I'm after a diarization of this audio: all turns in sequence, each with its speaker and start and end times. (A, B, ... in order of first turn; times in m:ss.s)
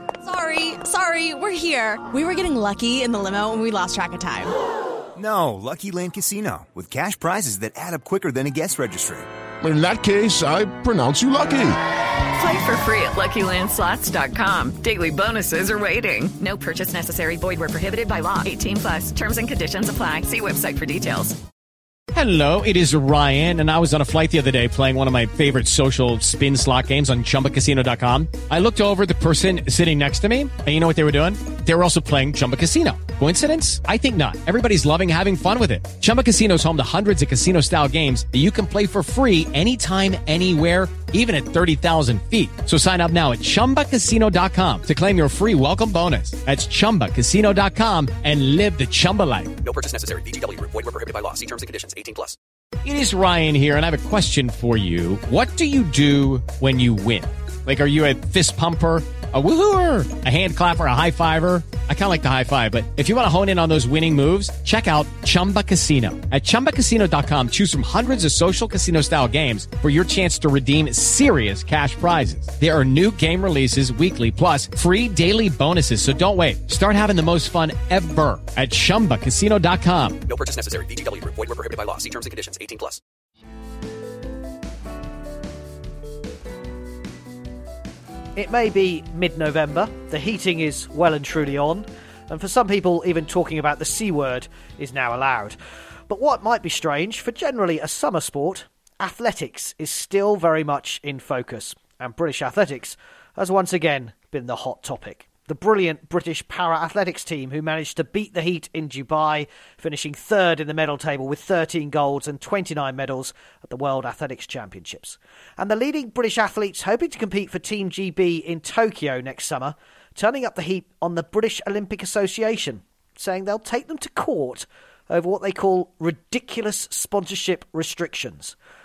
0:00.2-0:04.5 A
0:05.2-0:09.3 B
0:09.6-0:11.8 C
0:12.3-0:21.4 D
0:22.1-0:49.6 E
0:49.6-0:52.4 F
0:52.8-1:20.2 E
1:20.3-1:23.0 F
1:28.4-1:35.6 G
1:36.1-2:08.5 G